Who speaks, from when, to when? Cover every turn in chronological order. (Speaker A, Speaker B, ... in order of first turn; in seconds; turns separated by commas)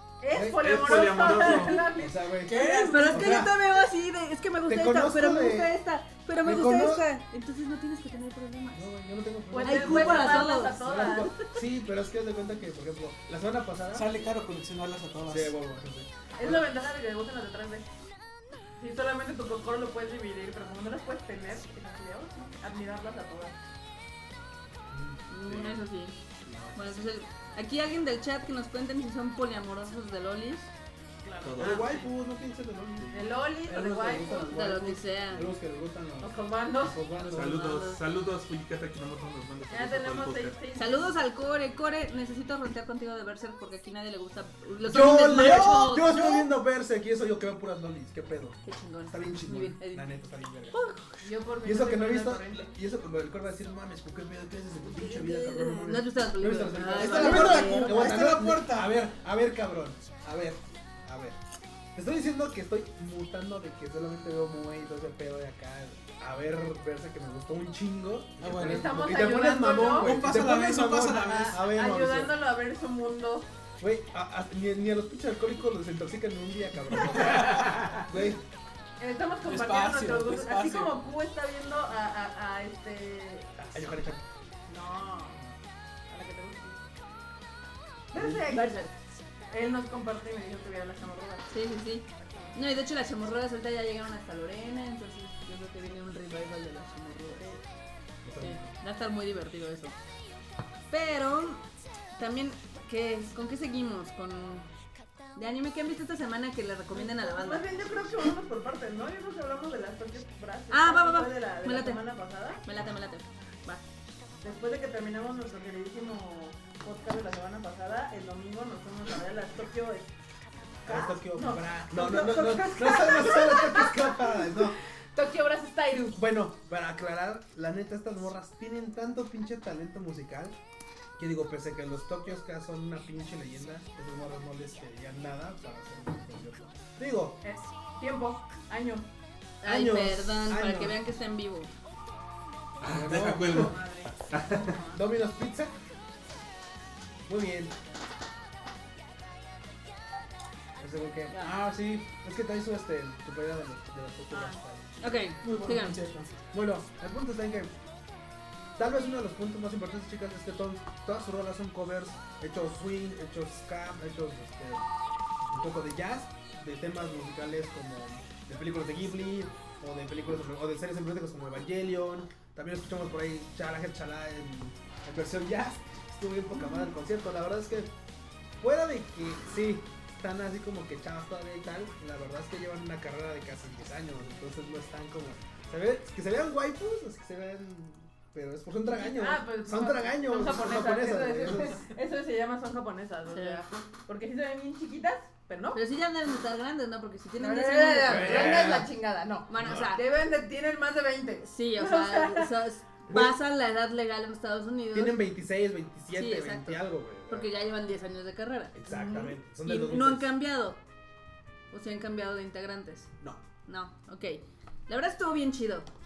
Speaker A: 0.2-2.9, Speaker B: 0.3-3.5, Speaker C: 0.6-1.9, Speaker D: 2.4-3.5, Speaker E: 2.6-8.9, Speaker B: 4.7-5.8, Speaker B: 6.4-7.1, Speaker B: 8.7-14.1, Speaker A: 9.5-11.4, Speaker E: 9.6-11.4, Speaker D: 13.9-15.6, Speaker B: 15.3-16.7, Speaker A: 16.4-17.9, Speaker A: 18.8-23.6, Speaker B: 24.9-25.2, Speaker E: 25.3-26.2, Speaker C: 25.4-25.8, Speaker C: 26.4-26.8, Speaker E: 26.8-30.7, Speaker A: 31.2-32.1, Speaker C: 31.4-32.0, Speaker B: 31.6-37.6, Speaker C: 33.0-33.3, Speaker A: 33.1-34.5, Speaker E: 34.5-35.5, Speaker A: 36.2-37.0, Speaker E: 37.1-38.0, Speaker C: 37.3-40.6, Speaker A: 39.7-41.1, Speaker E: 40.7-46.2, Speaker B: 44.9-48.6, Speaker D: 44.9-46.5, Speaker E: 48.6-50.1, Speaker B: 49.1-50.8, Speaker E: 50.7-51.3, Speaker A: 51.2-52.7, Speaker B: 51.6-61.4, Speaker E: 55.0-58.3, Speaker A: 57.0-57.2, Speaker D: 57.0-59.0, Speaker B: 62.0-72.4, Speaker D: 68.4-69.0, Speaker A: 68.6-70.2, Speaker D: 69.8-71.6, Speaker A: 71.2-73.5, Speaker B: 73.8-78.4, Speaker D: 77.3-77.8, Speaker C: 77.4-78.0, Speaker A: 79.0-83.5, Speaker D: 79.4-81.0, Speaker B: 83.6-84.2, Speaker A: 84.7-85.5, Speaker A: 86.1-86.8, Speaker A: 88.1-88.8, Speaker B: 88.1-88.4, Speaker E: 88.5-88.9, Speaker A: 89.5-91.6, Speaker E: 91.5-97.6, Speaker A: 92.2-92.6, Speaker B: 98.2-98.7, Speaker E: 98.4-100.0, Speaker E: 100.9-101.6, Speaker E: 102.2-104.7, Speaker E: 105.3-107.7, Speaker A: 106.9-112.6, Speaker B: 107.9-108.2, Speaker E: 110.7-112.0, Speaker E: 112.6-113.8, Speaker A: 114.4-120.1, Speaker B: 120.8-124.8, Speaker A: 120.8-126.2, Speaker B: 126.1-130.6, Speaker B: 131.2-137.4, Speaker A: 137.4-139.1, Speaker E: 139.6-141.7, Speaker B: 139.6-141.0, Speaker C: 142.8-144.8, Speaker B: 142.8-143.8, Speaker A: 143.4-145.0, Speaker B: 144.9-145.7, Speaker B: 147.3-147.7, Speaker B: 150.8-155.0, Speaker E: 151.3-151.6, Speaker A: 154.3-154.6, Speaker E: 155.0-156.0, Speaker D: 155.4-156.3, Speaker B: 156.5-157.7, Speaker B: 158.8-164.9, Speaker B: 165.5-177.9, Speaker B: 178.6-191.9, Speaker A: 188.9-195.8, Speaker E: 193.3-193.7, Speaker E: 195.7-198.5, Speaker A: 197.4-202.5, Speaker B: 198.1-198.9, Speaker E: 199.5-200.0, Speaker E: 201.4-205.2, Speaker B: 203.1-203.4, Speaker B: 204.9-207.5, Speaker E: 206.1-208.8, Speaker B: 208.8-210.3, Speaker A: 208.9-209.3, Speaker E: 209.6-210.8, Speaker E: 211.7-213.1, Speaker E: 213.7-215.9